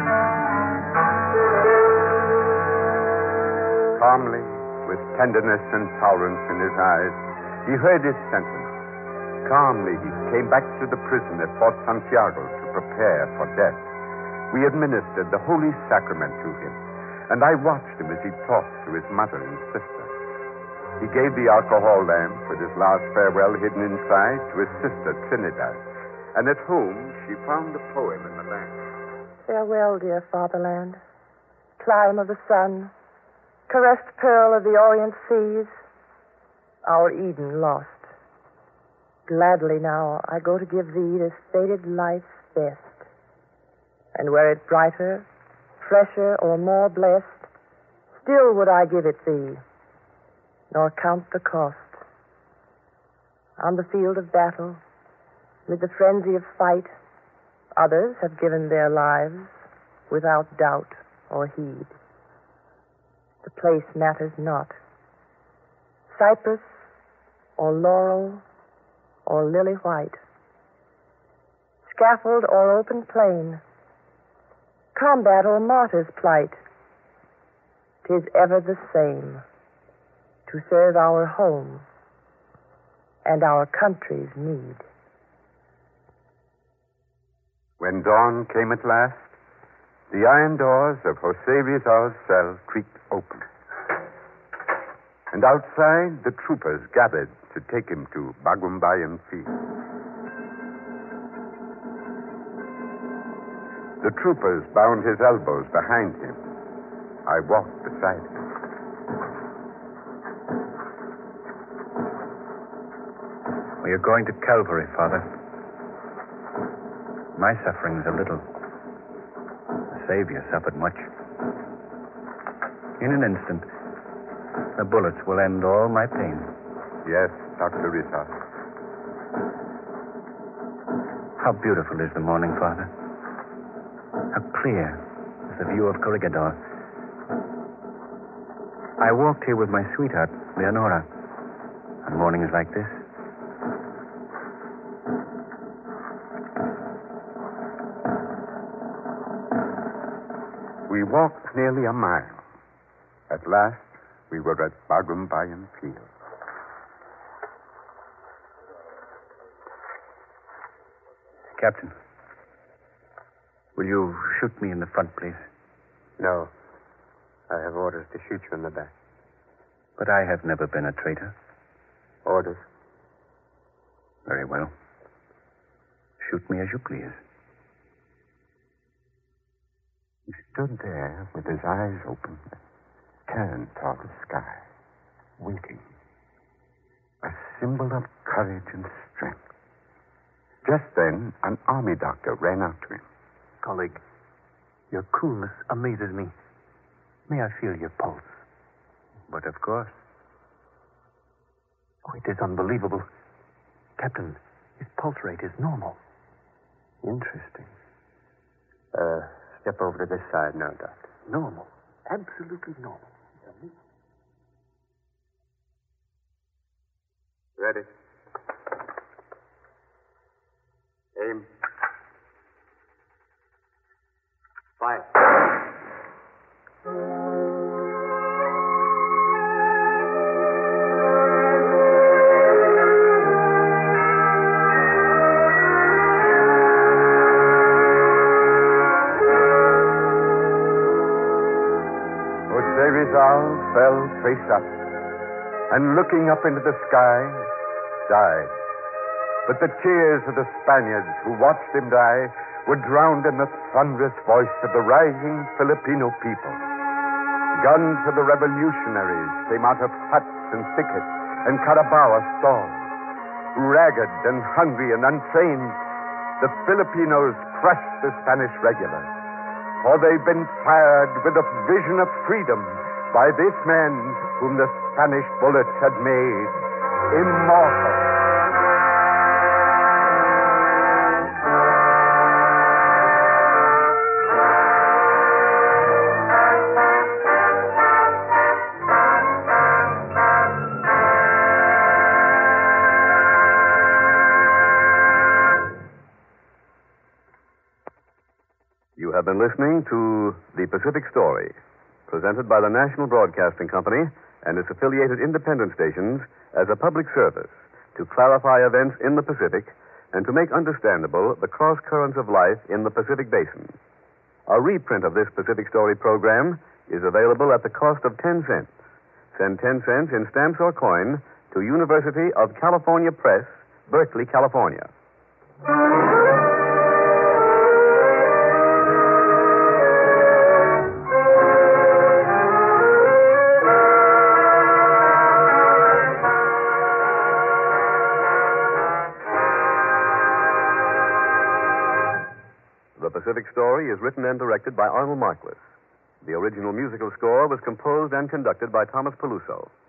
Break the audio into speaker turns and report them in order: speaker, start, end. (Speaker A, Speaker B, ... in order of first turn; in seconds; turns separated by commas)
Speaker A: 3.9-8.7, Speaker A: 9.4-13.8, Speaker A: 14.5-20.1, Speaker A: 21.0-28.8, Speaker B: 29.5-31.0, Speaker B: 31.8-32.9, Speaker B: 33.7-35.8, Speaker B: 36.8-38.1, Speaker B: 39.3-43.0, Speaker B: 44.1-45.2, Speaker B: 45.8-47.5, Speaker B: 48.2-49.6, Speaker B: 50.7-52.0, Speaker B: 53.6-54.8, Speaker B: 55.7-56.9, Speaker B: 57.8-59.5, Speaker B: 60.1-61.9, Speaker B: 63.4-64.8, Speaker B: 66.1-66.8, Speaker B: 67.6-68.4, Speaker B: 69.2-70.2, Speaker B: 71.8-73.6, Speaker B: 74.9-76.6, Speaker B: 78.0-79.4, Speaker B: 80.5-81.8, Speaker B: 83.2-84.8, Speaker A: 87.8-89.3, Speaker A: 90.1-93.5, Speaker A: 95.3-99.6, Speaker A: 104.0-106.4, Speaker A: 107.2-108.3, Speaker C: 113.8-115.2, Speaker C: 117.3-118.4, Speaker C: 119.9-121.1, Speaker C: 123.0-123.7, Speaker C: 124.7-126.5, Speaker A: 127.0-128.3, Speaker C: 131.4-132.9, Speaker C: 134.3-136.6, Speaker C: 139.0-141.1, Speaker C: 142.0-143.0, Speaker A: 150.9-152.4, Speaker A: 153.3-156.1, Speaker C: 161.6-161.9, Speaker C: 163.8-165.4, Speaker D: 166.2-166.5, Speaker D: 167.5-168.9, Speaker C: 170.0-171.3, Speaker D: 172.2-172.7, Speaker C: 174.2-174.7, Speaker C: 176.2-177.2, Speaker A: 180.3-182.6, Speaker A: 183.3-184.6, Speaker A: 185.4-185.9, Speaker A: 187.2-189.4, Speaker A: 190.6-193.0, Speaker E: 193.6-194.0, Speaker E: 194.9-196.3, Speaker E: 197.3-198.4, Speaker C: 199.3-200.0, Speaker E: 202.1-203.1, Speaker E: 204.0-206.0, Speaker D: 207.0-207.7, Speaker D: 208.9-211.1, Speaker E: 211.3-211.7, Speaker D: 212.1-213.0, Speaker D: 217.6-217.8, Speaker D: 221.2-221.4, Speaker A: 242.5-244.8, Speaker A: 245.7-247.5, Speaker A: 248.1-248.5, Speaker A: 249.4-256.6, Speaker A: 257.5-262.9, Speaker A: 263.5-265.8, Speaker A: 266.4-269.1, Speaker A: 269.8-278.1, Speaker F: 299.0-301.6, Speaker F: 302.1-313.8, Speaker F: 314.5-318.8, Speaker F: 319.3-324.9, Speaker F: 343.0-345.7, Speaker F: 346.2-349.7